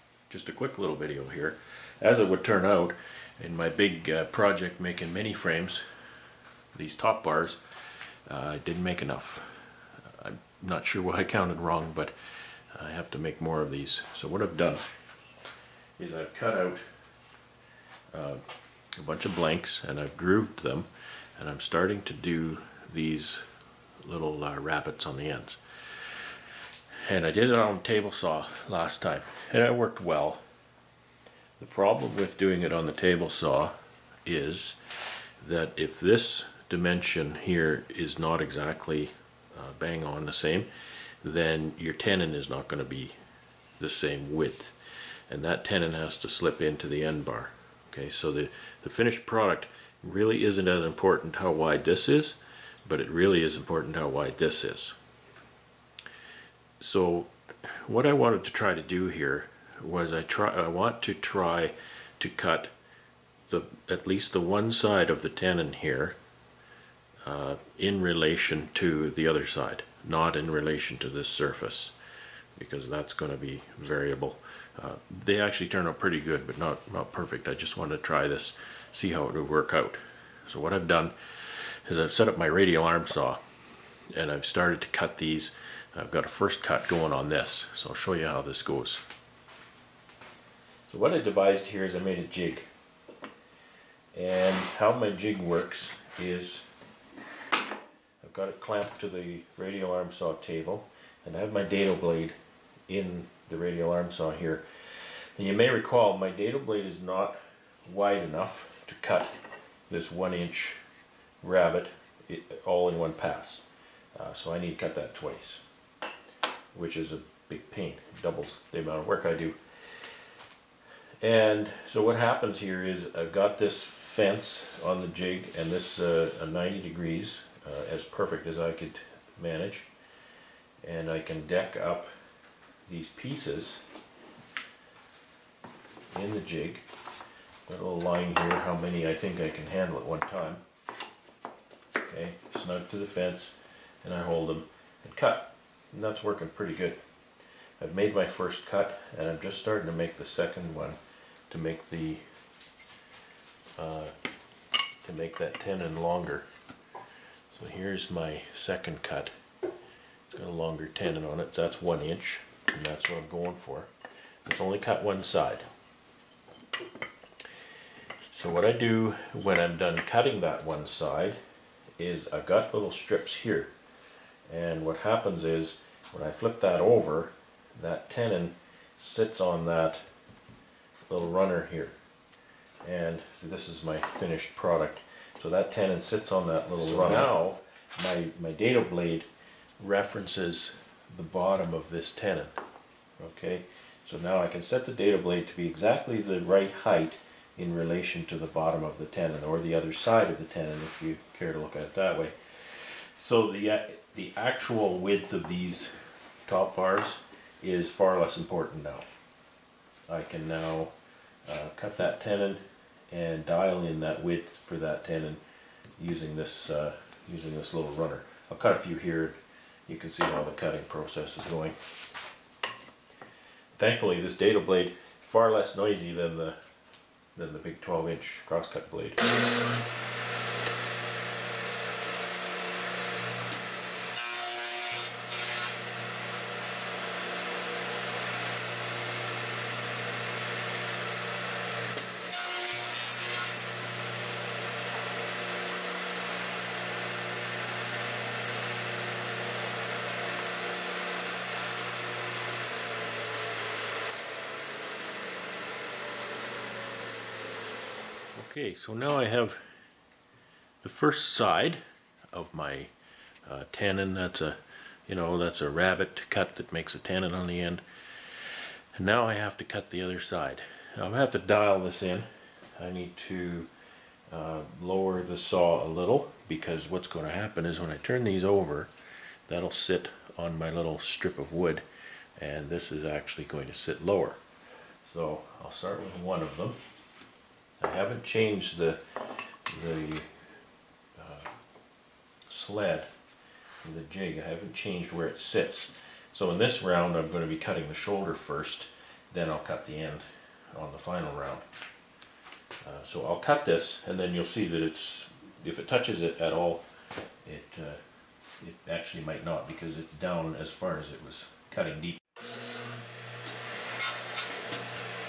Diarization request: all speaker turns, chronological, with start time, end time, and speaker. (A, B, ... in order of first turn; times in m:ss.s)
0:00.3-0:05.8 A
0:06.7-0:07.6 A
0:08.3-0:14.9 A
0:16.0-0:16.9 A
0:18.1-0:23.5 A
0:24.0-0:26.3 A
0:27.0-0:30.4 A
0:31.6-0:34.8 A
0:35.4-0:40.7 A
0:41.2-0:43.2 A
0:43.8-0:44.8 A
0:45.3-0:55.0 A
0:56.8-1:02.7 A
1:03.5-1:06.2 A
1:07.2-1:12.0 A
1:12.6-1:23.4 A
1:24.1-1:29.1 A
1:30.9-1:32.7 A
1:34.1-1:36.7 A
1:38.2-1:42.4 A
1:42.9-1:50.8 A
1:51.4-1:55.6 A
1:56.7-2:00.1 A
2:01.2-2:09.9 A
2:10.8-2:12.1 A
2:12.8-2:13.8 A
2:16.1-2:16.9 A
2:17.7-2:20.6 A
2:22.0-2:27.0 A
2:27.8-2:32.3 A
2:33.8-2:34.2 A
2:35.0-2:36.5 A
2:37.5-2:39.4 A
2:40.3-2:43.9 A
2:44.4-2:45.7 A
2:48.3-2:51.4 A
2:52.0-2:53.7 A
2:54.5-3:00.0 A
3:01.1-3:02.0 A
3:02.8-3:12.6 A
3:13.2-3:29.1 A
3:30.1-3:35.4 A
3:36.0-3:41.8 A
3:43.8-3:46.6 A
3:47.4-3:49.3 A
4:18.4-4:19.7 A
4:20.8-4:22.9 A
4:23.4-4:33.7 A
4:34.3-4:38.9 A
4:39.5-4:41.9 A
4:42.4-4:44.4 A
4:45.0-4:46.8 A
4:47.8-4:50.5 A
4:51.2-4:51.5 A
4:52.5-4:53.1 A
4:53.8-5:01.7 A
5:02.8-5:06.9 A
5:07.4-5:08.1 A
5:08.6-5:12.2 A